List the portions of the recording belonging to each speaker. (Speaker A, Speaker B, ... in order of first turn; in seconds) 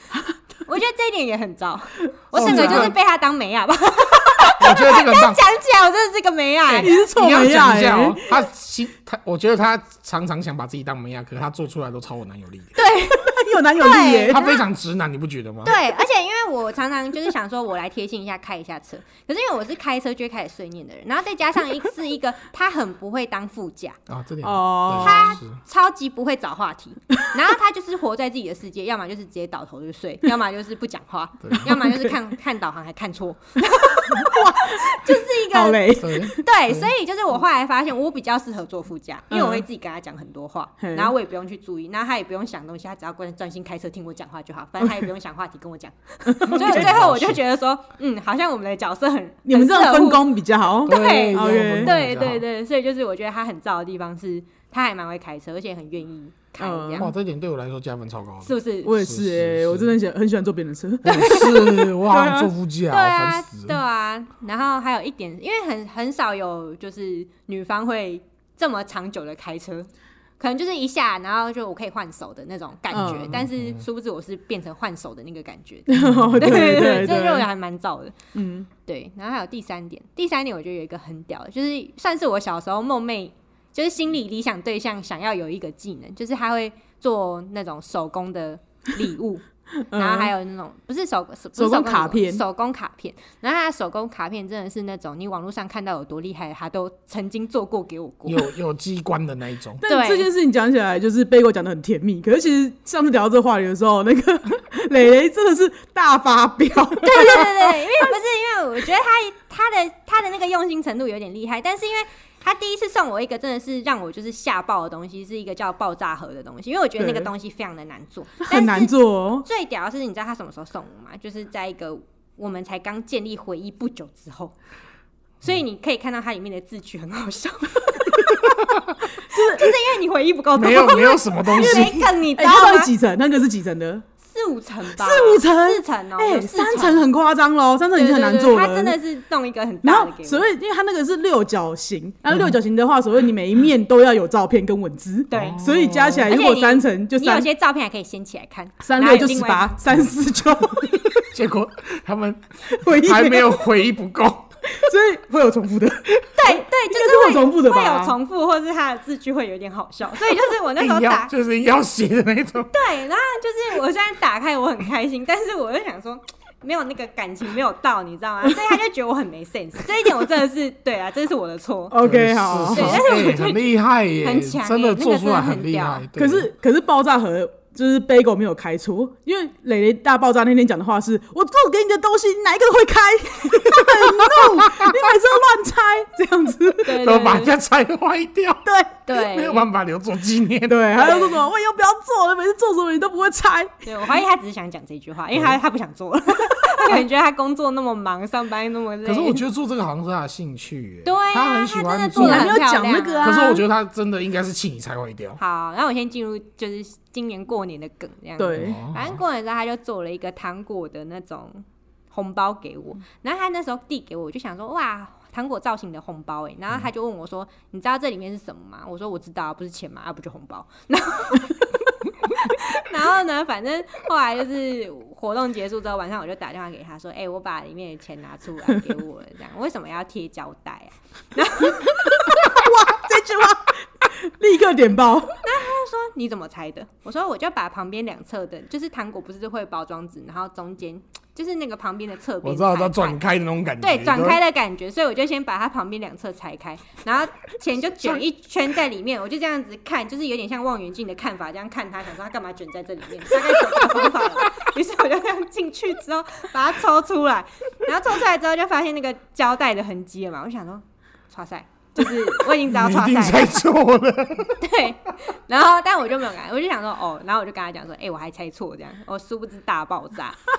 Speaker A: 0.7-7.0, 12.8-14.6, 15.7-24.0, 24.9-50.3, 50.9-57.1, 58.4-58.9, 62.9-78.2, 78.8-98.5, 99.8-100.3, 107.0-124.5, 125.4-128.5, 129.2-132.9, 134.2-137.1, 137.9-140.5, 145.3-145.6, 146.3-149.7, 156.4-161.3, 162.7-172.0, 172.7-173.7, 174.2-176.1, 186.8-187.5, 189.1-189.7, 191.0-191.5, 193.8-199.4, 201.1-203.6, 205.4-232.6, 235.4-243.2, 243.8-263.6, 264.6-270.4
Speaker B: 2.3-2.9, 6.8-8.3, 13.1-14.5, 24.4-25.4, 34.1-36.5, 39.3-39.6, 40.8-41.1, 46.3-46.9, 49.5-51.9, 56.6-57.1, 58.8-62.5, 72.9-73.4, 75.9-77.5, 78.3-78.7, 89.9-90.3, 91.6-92.4, 99.8-107.7, 117.0-117.3, 118.4-119.5, 129.3-129.6, 131.5-134.1, 134.9-139.0, 139.8-147.5, 148.8-151.2, 152.7-153.7, 154.7-158.1, 171.9-173.1, 176.2-187.1, 188.7-189.0, 190.7-193.8, 202.2-203.6, 208.4-208.8, 232.0-235.4
Speaker C: 2.3-3.0, 4.6-5.4, 6.7-12.8, 14.3-15.8, 24.1-25.6, 31.4-31.8, 35.9-36.9, 46.5-47.4, 50.9-52.4, 57.0-59.9, 61.0-63.8, 73.1-73.8, 76.0-77.1, 98.3-99.8, 130.6-132.0, 145.3-146.3, 151.2-154.5, 160.8-162.8, 172.0-176.5, 183.8-185.0, 187.0-191.0, 199.1-202.6, 203.2-205.4, 208.6-209.2, 242.4-244.4, 262.6-264.6